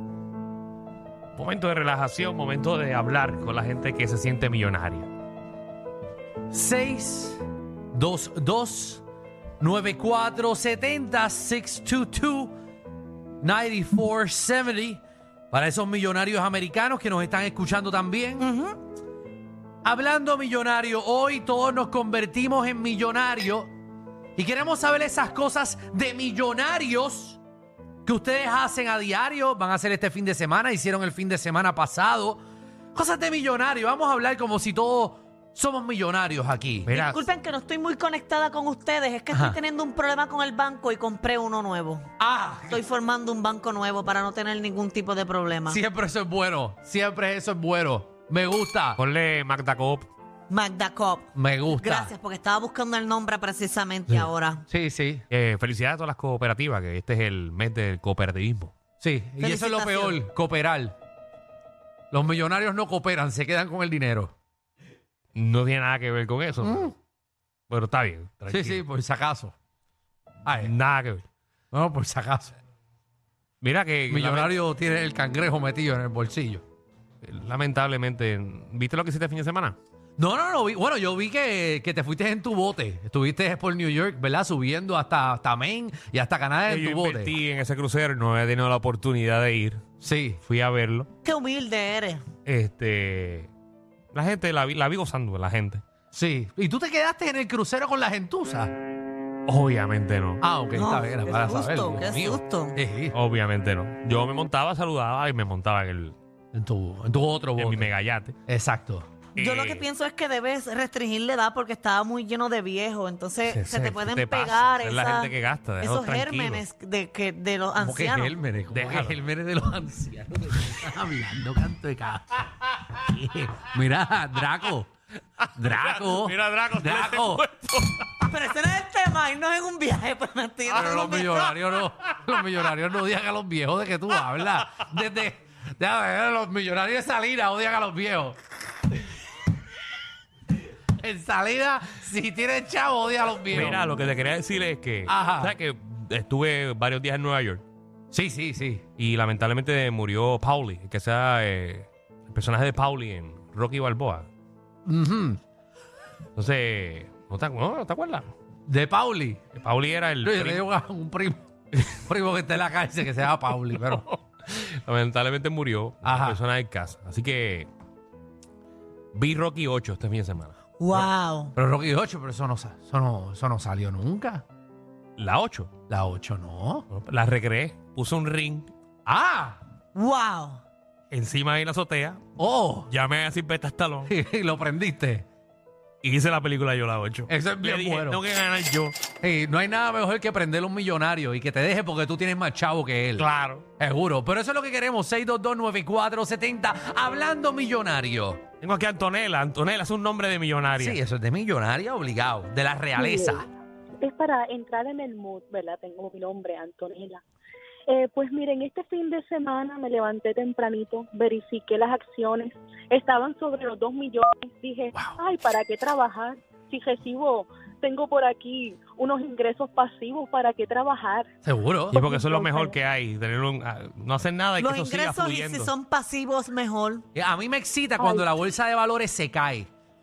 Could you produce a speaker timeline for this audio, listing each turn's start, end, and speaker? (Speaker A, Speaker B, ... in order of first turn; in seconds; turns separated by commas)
Speaker A: 1.4-5.1, Speaker B: 6.5-7.4, Speaker B: 7.9-9.0, Speaker B: 9.6-12.5, Speaker B: 13.4-18.5, Speaker C: 18.4-18.7, Speaker B: 19.8-23.7, Speaker B: 24.4-27.4, Speaker B: 28.1-32.4, Speaker B: 32.9-36.9, Speaker A: 36.9-37.3, Speaker C: 36.9-42.1, Speaker B: 39.3-39.6, Speaker B: 42.2-42.8, Speaker C: 42.7-45.8, Speaker B: 45.6-49.0, Speaker A: 49.0-50.1, Speaker C: 50.5-54.6, Speaker B: 51.3-52.1, Speaker B: 54.1-55.2, Speaker A: 55.3-58.7, Speaker B: 59.0-60.9, Speaker C: 59.4-60.2, Speaker B: 62.1-64.3, Speaker A: 65.3-66.9, Speaker B: 66.6-66.9, Speaker A: 67.7-68.8, Speaker B: 68.5-69.5, Speaker B: 70.4-70.8, Speaker A: 70.6-71.3, Speaker B: 71.7-72.5, Speaker A: 73.6-74.6, Speaker B: 74.1-76.6, Speaker A: 77.2-79.8, Speaker B: 80.2-87.3, Speaker A: 86.7-89.8, Speaker B: 90.0-90.4, Speaker A: 90.4-91.1, Speaker C: 91.2-92.2, Speaker A: 92.4-93.5, Speaker A: 94.1-95.8, Speaker B: 96.1-98.7, Speaker A: 99.5-100.4, Speaker B: 100.4-103.2, Speaker C: 100.7-102.8, Speaker A: 103.1-106.2, Speaker B: 106.5-107.9, Speaker A: 107.6-108.3, Speaker B: 108.5-109.1, Speaker A: 109.3-109.9, Speaker C: 109.4-118.3, Speaker A: 113.5-116.6, Speaker B: 117.8-122.5, Speaker A: 118.7-119.2, Speaker B: 123.0-124.9, Speaker A: 125.4-128.1, Speaker B: 125.6-127.4, Speaker C: 128.2-131.2, Speaker A: 130.7-132.4, Speaker B: 130.7-138.4, Speaker B: 141.0-143.8, Speaker A: 143.5-147.6, Speaker B: 145.1-145.6, Speaker B: 148.1-148.8, Speaker A: 149.0-154.3, Speaker B: 154.8-155.4, Speaker A: 156.3-158.3, Speaker B: 158.7-159.4, Speaker A: 159.5-160.6, Speaker B: 160.2-164.0, Speaker A: 163.8-167.7, Speaker B: 166.0-166.4, Speaker A: 169.1-171.1, Speaker C: 170.8-171.5, Speaker B: 170.9-174.4, Speaker A: 175.2-175.7, Speaker B: 175.9-176.8, Speaker A: 176.9-178.7, Speaker B: 179.1-179.6, Speaker C: 179.9-180.6, Speaker A: 181.1-182.2, Speaker B: 182.4-182.9, Speaker A: 182.9-184.1, Speaker B: 184.1-185.2, Speaker A: 186.0-189.0, Speaker B: 187.3-188.2, Speaker B: 189.2-193.3, Speaker A: 193.2-193.6, Speaker B: 193.8-198.4, Speaker A: 198.6-201.0, Speaker B: 200.8-203.5, Speaker D: 202.9-203.4, Speaker D: 204.0-207.2, Speaker D: 207.9-221.3, Speaker B: 221.4-222.0, Speaker A: 221.9-225.7, Speaker D: 222.0-222.8, Speaker C: 224.6-227.0, Speaker B: 227.1-229.7, Speaker D: 228.0-228.4